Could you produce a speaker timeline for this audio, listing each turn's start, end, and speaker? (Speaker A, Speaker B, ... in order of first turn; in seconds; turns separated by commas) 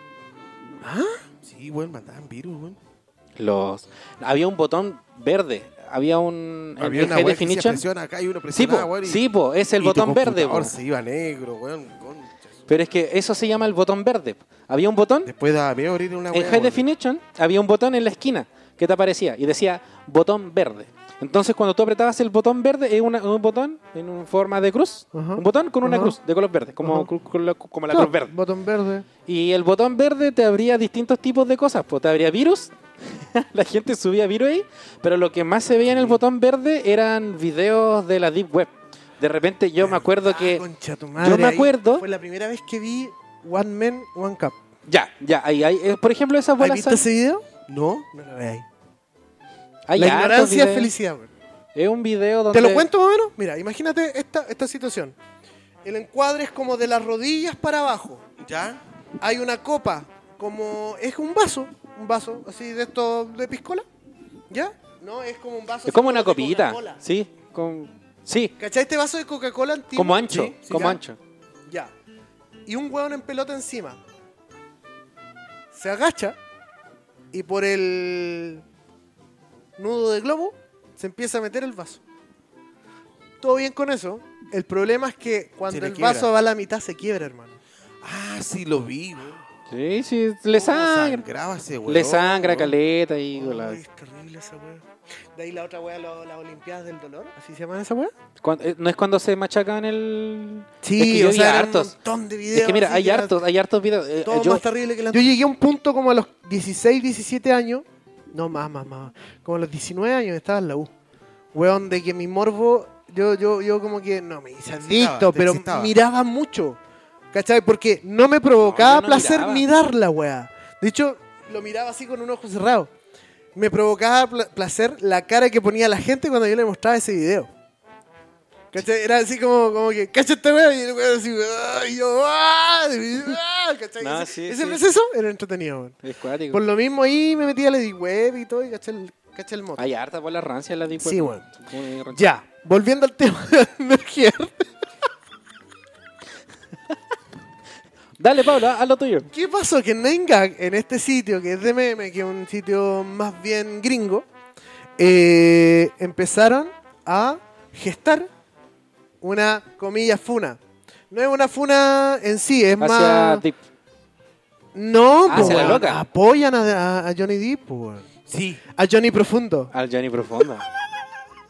Speaker A: 0.8-1.2, Speaker B: 1.4-2.8, Speaker C: 3.4-7.8, Speaker B: 6.8-9.2, Speaker C: 8.5-10.7, Speaker B: 9.8-12.5, Speaker C: 12.7-15.3, Speaker B: 15.2-16.8, Speaker C: 16.3-28.3, Speaker A: 25.1-26.1, Speaker A: 26.8-27.1, Speaker A: 27.9-29.1, Speaker C: 29.2-40.6, Speaker A: 39.8-44.5, Speaker C: 41.2-42.0, Speaker C: 44.9-47.0, Speaker A: 46.6-47.5, Speaker B: 47.7-48.1, Speaker A: 48.1-48.6, Speaker C: 49.9-50.9, Speaker A: 50.0-51.3, Speaker C: 51.7-52.9, Speaker A: 52.5-55.1, Speaker A: 55.8-58.2, Speaker B: 58.4-58.8, Speaker A: 59.2-63.8, Speaker A: 64.5-67.0, Speaker C: 65.9-68.5, Speaker A: 68.6-71.0, Speaker C: 69.9-71.2, Speaker B: 70.3-70.5, Speaker A: 72.7-74.0, Speaker A: 75.7-76.4, Speaker A: 77.3-78.6, Speaker A: 79.8-82.0, Speaker A: 83.4-87.6, Speaker B: 85.7-86.3, Speaker B: 88.0-89.4, Speaker C: 89.7-91.2, Speaker B: 90.5-92.7, Speaker C: 91.9-93.8, Speaker A: 93.3-98.1, Speaker C: 98.4-101.9, Speaker A: 100.8-103.3, Speaker C: 102.5-104.6, Speaker A: 104.2-110.9, Speaker A: 111.5-116.8, Speaker B: 114.8-115.9, Speaker A: 117.3-122.9, Speaker C: 118.6-119.7, Speaker A: 123.5-127.5, Speaker A: 128.7-136.0, Speaker C: 134.0-134.8, Speaker C: 136.0-136.6, Speaker A: 136.5-139.8, Speaker C: 139.8-142.2, Speaker A: 141.0-141.4, Speaker A: 142.1-144.6, Speaker C: 148.2-149.3, Speaker A: 149.3-154.2, Speaker A: 155.0-158.3, Speaker A: 159.2-160.6, Speaker A: 161.1-163.4, Speaker C: 162.8-163.6, Speaker A: 164.7-168.1, Speaker C: 165.3-166.0, Speaker B: 165.3-165.8, Speaker B: 168.3-168.6, Speaker A: 168.7-169.7, Speaker C: 169.7-170.7